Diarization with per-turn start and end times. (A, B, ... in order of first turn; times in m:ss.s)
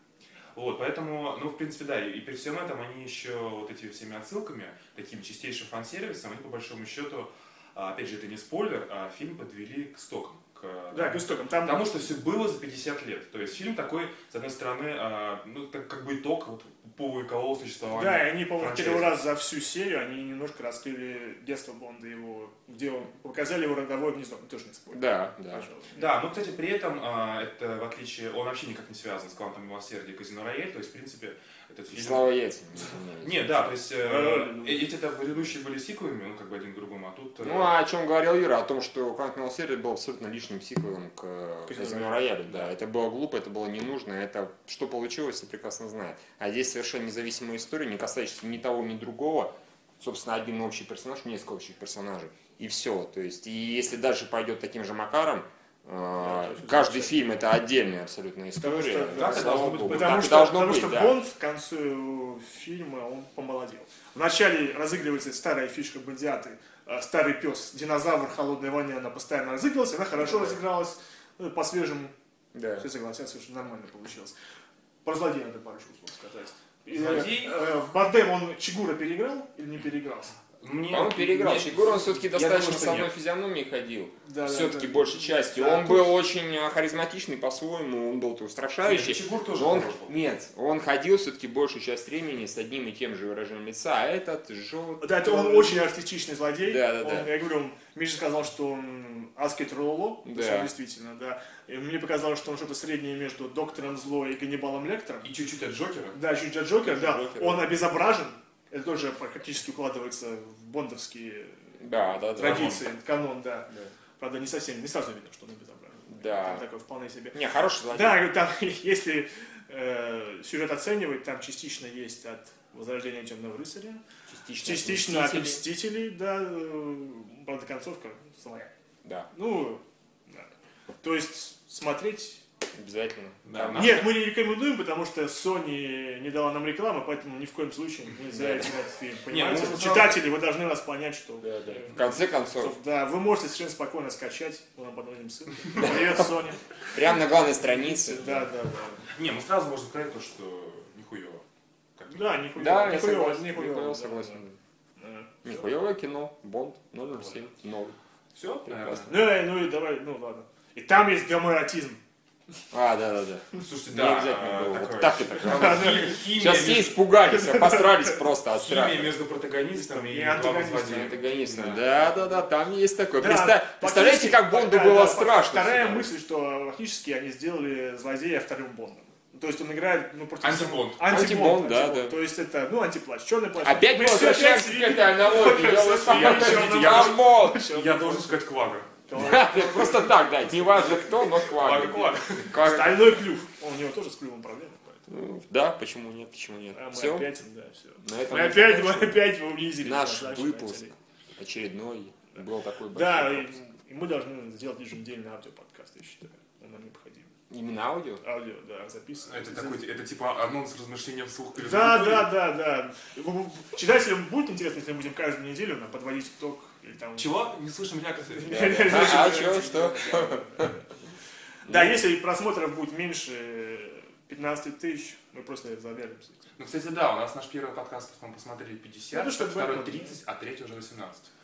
0:00.5-0:19.1 A
0:10.9-0:11.9 B
0:17.9-0:26.1 B
0:24.9-0:25.6 C
0:25.9-0:32.3 A
0:31.9-0:33.7 C
0:33.2-0:37.7 A
0:34.0-0:34.9 B
0:37.4-1:01.2 C
0:41.7-0:42.3 B
0:56.2-0:57.4 B
0:58.6-1:12.1 B
0:59.1-1:00.3 A
1:10.2-1:10.6 C
1:12.5-1:12.8 C
1:12.8-1:14.3 B
1:15.0-1:20.3 B
1:16.9-1:17.6 A
1:20.6-1:23.1 A
1:20.9-1:35.8 C
1:24.2-1:26.1 B
1:28.8-1:30.1 A
1:35.0-1:45.3 B
1:36.6-1:37.3 C
1:40.2-1:40.7 C
1:45.2-1:46.2 A
1:46.1-1:51.8 B
1:46.8-1:47.7 C
1:51.8-1:52.7 C
1:52.3-2:04.0 B
1:52.4-1:52.8 A
1:56.1-1:56.6 C
1:57.3-1:58.3 C
2:04.3-2:05.6 C
2:04.6-2:08.7 B
2:09.3-2:10.5 B
2:11.0-2:12.4 B
2:12.7-2:14.1 C
2:13.4-2:14.1 A
2:13.7-2:26.6 B
2:18.3-2:18.7 C
2:19.2-2:20.2 A
2:21.4-2:22.8 C
2:25.8-2:26.2 C
2:26.9-2:28.5 C
2:27.8-2:29.0 B
2:29.1-2:31.4 A
2:32.0-2:32.4 A
2:32.1-2:34.4 B
2:32.6-2:34.6 C
2:35.0-2:35.6 B
2:35.4-2:38.0 C
2:38.3-2:39.3 A
2:38.7-2:39.1 C
2:39.0-2:42.0 B
2:42.7-2:49.1 C
2:43.6-2:47.1 A
2:45.4-2:46.2 B
2:47.3-2:48.0 B
2:48.5-2:52.1 A
2:49.7-2:51.2 B
2:50.8-2:56.1 C
2:53.2-3:08.5 B
3:00.4-3:01.1 A
3:01.0-3:02.2 C
3:03.6-3:07.6 C
3:06.0-3:08.9 A
3:09.0-3:11.0 B
3:09.1-3:13.3 C
3:11.5-3:12.7 A
3:12.6-3:15.0 B
3:15.1-3:17.3 C
3:16.7-3:20.9 B
3:18.0-3:23.6 C
3:22.9-3:27.3 B
3:27.5-3:28.2 C
3:28.2-3:29.9 B
3:29.2-3:32.3 A
3:31.5-3:37.4 B
3:37.2-3:39.3 A
3:38.3-3:40.8 B
3:38.5-3:40.7 C
3:41.6-3:46.4 B
3:41.7-3:42.0 C
3:46.6-3:51.3 A
3:49.1-3:50.2 B